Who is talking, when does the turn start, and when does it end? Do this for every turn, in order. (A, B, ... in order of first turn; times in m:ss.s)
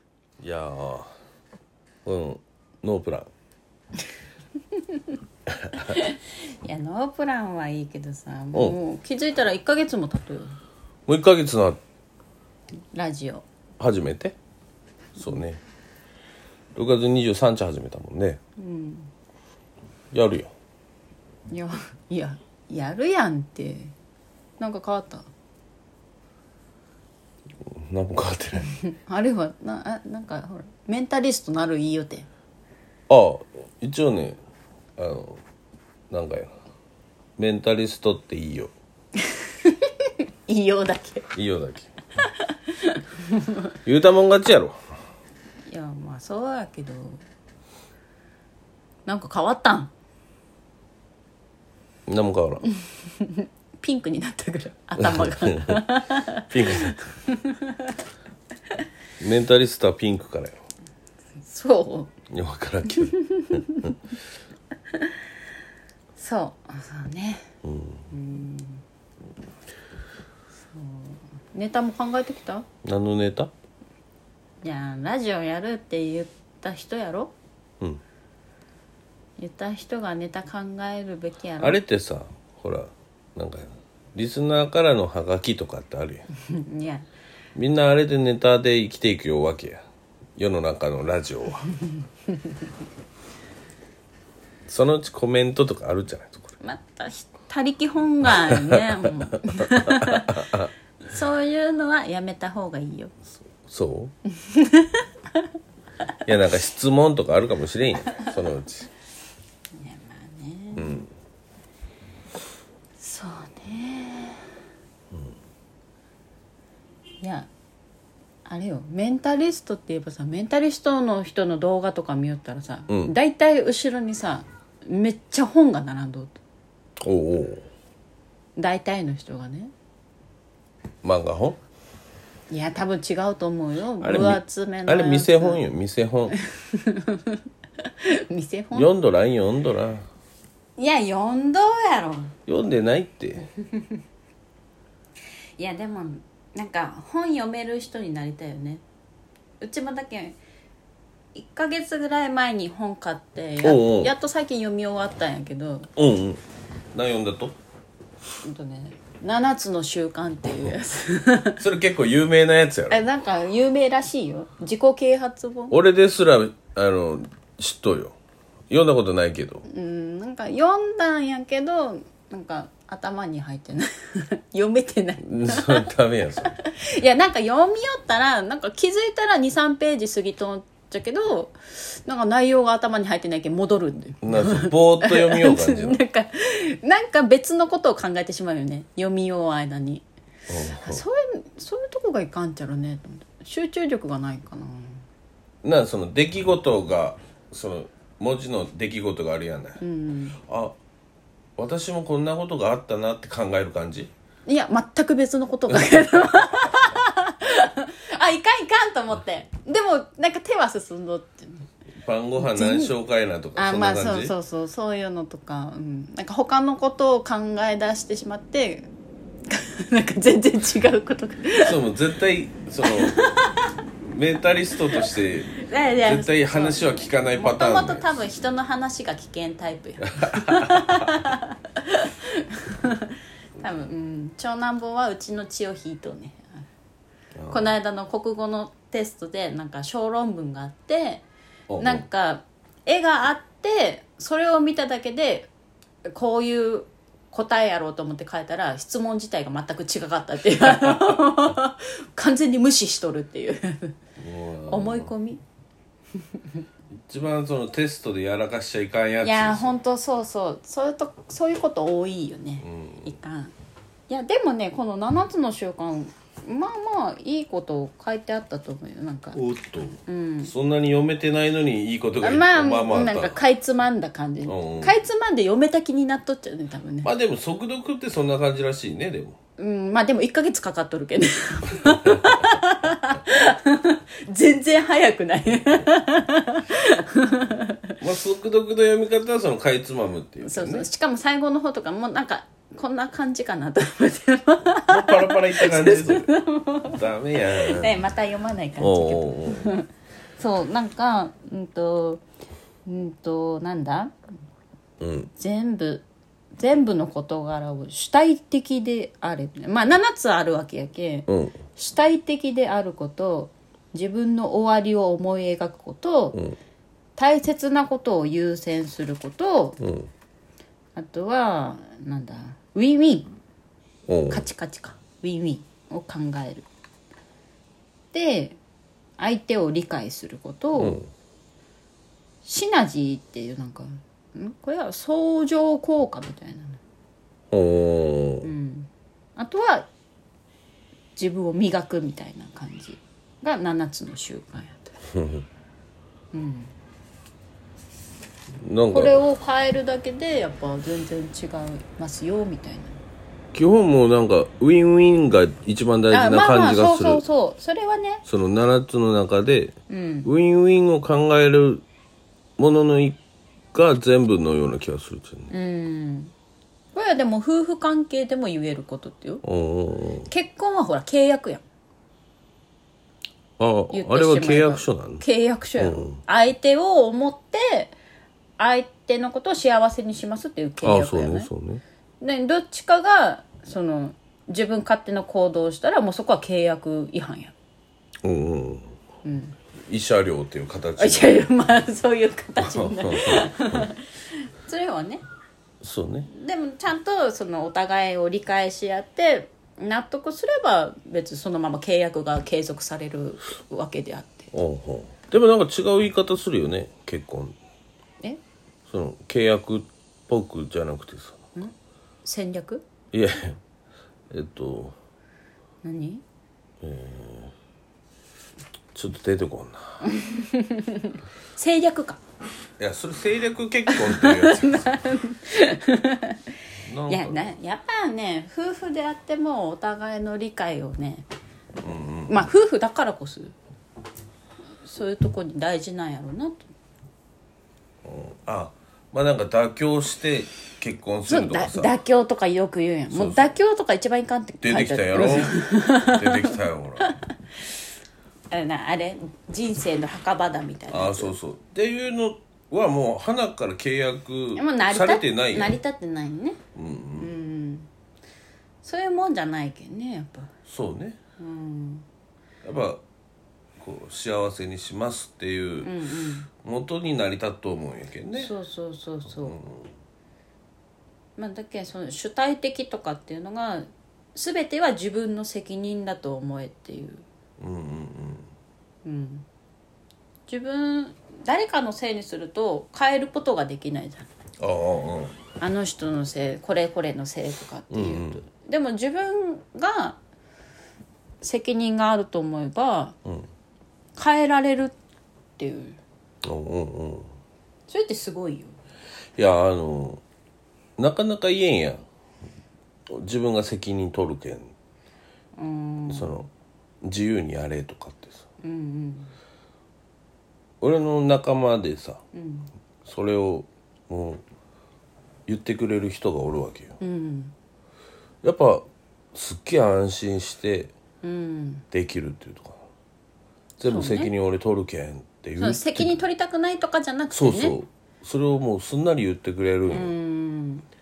0:00.4-0:01.1 A
0:02.0-0:03.3 A
0:04.7-0:05.2 B
0:05.8-0:10.6 B
0:11.1-0:11.8 A
0:12.9-0:13.4 B
0:13.8-0:14.4 A
0:15.2-0:15.6 A
0:16.7-0:18.4 A
0:18.6-0:19.1 B
0:20.1-0:20.5 A
0:21.5-0:23.9 B
0:24.6-0:25.3 B
0:27.6-0:28.7 A
0:28.6-0:32.3 B
0:33.1-0:34.4 A
0:35.0-0:35.4 A
0:36.1-0:36.5 A
0:37.4-0:38.7 A
0:39.2-0:41.3 B
0:41.3-0:41.9 A
0:42.3-0:43.6 B
0:43.8-0:44.8 A
0:45.7-0:47.2 B
0:49.0-0:49.9 B
0:52.1-0:52.6 A
0:52.8-0:57.9 B
0:55.0-0:56.0 A
0:56.5-0:57.1 A
0:59.2-1:00.6 A
1:01.4-1:02.1 B
1:02.3-1:03.6 A
1:03.3-1:04.0 B
1:06.2-1:07.5 B
1:07.6-1:08.1 A
1:08.1-1:08.8 B
1:10.7-1:12.6 B
1:12.8-1:13.5 A
1:14.6-1:17.3 B
1:19.4-1:21.8 B
1:21.6-1:26.2 A
1:26.4-1:27.0 B
1:27.5-1:29.8 A
1:30.4-1:31.7 A
1:34.7-1:36.5 A
1:36.6-1:40.5 B
1:38.2-1:40.7 A
1:41.0-1:43.1 B
1:43.4-1:44.1 A
1:44.4-1:45.4 B
1:46.2-1:48.9 A
1:49.8-1:51.0 B
1:50.7-1:51.1 A
1:53.0-1:54.5 B
1:57.2-1:57.5 B
1:58.4-2:06.3 B
2:02.9-2:03.1 A
2:07.0-2:07.6 A
2:08.6-2:09.7 B
2:11.0-2:11.6 A
2:12.5-2:15.6 B
2:14.0-2:16.3 A
2:16.3-2:18.9 B
2:18.7-2:20.1 A
2:20.8-2:22.3 B
2:22.5-2:23.5 A
2:23.6-2:24.0 B
2:25.6-2:28.8 B
2:29.6-2:30.4 B
2:31.3-2:35.9 B
2:33.6-2:34.1 A
2:36.0-2:36.4 A
2:36.9-2:37.5 A
2:38.4-2:41.6 B
2:41.6-2:43.0 A
2:42.9-2:45.8 B
2:45.7-2:48.2 A
2:48.7-2:49.6 A
2:49.7-2:55.9 B
2:55.2-2:56.6 A
2:56.4-3:10.0 B
3:04.2-3:06.0 A
3:10.5-3:11.0 A
3:10.8-3:15.0 B
3:15.6-3:19.8 A
3:19.8-3:20.4 B
3:20.5-3:20.8 A
3:21.6-3:24.1 A
3:24.4-3:31.7 B
3:25.7-3:26.3 A
3:32.0-3:34.3 A
3:32.4-3:32.9 B
3:33.6-3:38.9 B
3:39.5-3:41.8 B
3:41.6-3:43.2 A
3:42.8-3:43.7 B
3:44.0-3:48.1 A
3:44.9-3:56.7 B
3:50.2-3:50.9 A
3:57.4-3:57.7 A
3:57.5-4:01.2 B
4:01.7-4:02.0 A
4:01.8-4:05.5 B
4:06.1-4:14.0 B
4:14.2-4:15.1 A
4:14.7-4:15.4 B
4:17.1-4:19.8 A
4:19.2-4:23.5 B
4:22.6-4:23.2 A
4:24.1-4:29.4 B
4:29.3-4:33.4 A
4:30.0-4:30.5 B
4:32.2-4:37.1 B
4:34.4-4:35.0 A
4:37.0-4:39.4 A
4:39.6-4:47.9 B
4:41.8-4:42.5 A
4:48.0-4:50.9 A
4:50.4-5:02.2 B
4:54.9-4:56.3 A
4:56.9-4:58.0 A
4:58.8-4:59.8 A
5:02.8-5:04.1 B
5:05.0-5:05.3 A
5:05.4-5:06.0 B
5:06.6-5:16.4 B
5:11.3-5:11.6 A
5:17.2-5:19.8 B
5:19.8-5:20.1 A
5:20.9-5:23.3 B
5:24.1-5:24.4 A
5:24.3-5:26.7 B
5:28.1-5:28.6 B
5:29.2-5:31.0 B
5:30.8-5:31.1 A
5:32.4-5:36.8 B
5:37.5-5:38.5 A
5:38.4-5:39.9 B
5:41.2-5:44.9 B
5:45.1-5:45.4 A
5:46.3-5:46.7 B
5:48.6-5:49.2 A
5:48.9-5:53.0 B
5:53.5-5:57.2 A
5:56.1-5:58.2 B
5:58.2-6:01.8 A
5:59.9-6:00.3 B
6:02.6-6:03.2 A
6:03.7-6:05.5 A
6:05.5-6:06.3 B
6:06.9-6:09.4 B
6:09.4-6:10.3 A
6:10.2-6:11.6 B
6:13.6-6:15.2 A
6:13.9-6:17.9 B
6:15.8-6:16.2 A
6:18.6-6:21.5 B
6:20.8-6:21.8 A
6:22.2-6:27.5 B
6:28.2-6:28.9 A
6:29.2-6:29.6 B
6:29.7-6:31.4 A
6:31.0-6:35.2 B
6:32.6-6:33.9 A
6:35.8-6:36.3 A
6:36.3-6:44.5 B
6:44.5-6:47.6 A
6:48.9-6:51.4 A
6:51.6-6:52.8 B
6:53.1-6:53.6 A
6:54.3-6:55.0 A
6:55.8-6:56.2 B
6:56.8-6:57.5 A
6:58.9-7:00.0 A
7:00.0-7:02.2 B
7:02.8-7:04.9 A
7:03.9-7:06.4 B
7:06.8-7:07.5 A
7:07.1-7:11.3 B
7:11.8-7:12.5 A
7:12.3-7:13.5 B
7:14.8-7:16.7 B
7:18.0-7:21.9 A
7:21.3-7:27.3 B
7:23.1-7:23.5 A
7:24.6-7:27.1 A
7:28.5-7:31.3 B
7:30.9-7:35.8 A
7:34.5-7:36.6 B
7:36.7-7:37.3 A
7:37.2-7:37.9 B
7:38.8-7:40.5 B
7:40.6-7:41.2 A
7:41.4-7:42.1 B
7:42.6-7:43.0 A
7:43.8-7:45.9 A
7:45.8-7:46.5 B
7:46.6-7:48.5 A
7:48.3-7:49.6 B
7:49.4-7:49.9 A
7:51.4-7:57.2 B
7:57.6-7:58.5 A
7:59.0-7:59.4 B
8:00.5-8:04.3 B
8:04.6-8:05.4 A
8:05.6-8:10.2 B
8:07.9-8:08.4 A
8:11.4-8:13.2 B
8:14.2-8:15.0 B
8:15.6-8:16.0 B
8:16.4-8:17.3 A
8:17.9-8:18.8 B
8:19.4-8:20.2 A
8:21.0-8:22.0 A
8:23.1-8:24.7 A
8:25.6-8:26.4 B
8:26.1-8:26.5 A
8:27.0-8:28.4 A
8:28.6-8:29.3 B
8:30.8-8:32.2 A
8:32.3-8:32.7 B
8:33.0-8:34.4 A
8:35.5-8:37.0 A
8:37.0-8:37.5 B
8:38.4-8:40.9 A
8:41.2-8:41.8 B
8:41.9-8:42.8 A
8:43.8-8:44.3 B
8:43.8-8:46.2 A
8:45.6-8:47.8 B
8:47.3-8:50.1 A
8:49.9-8:50.8 B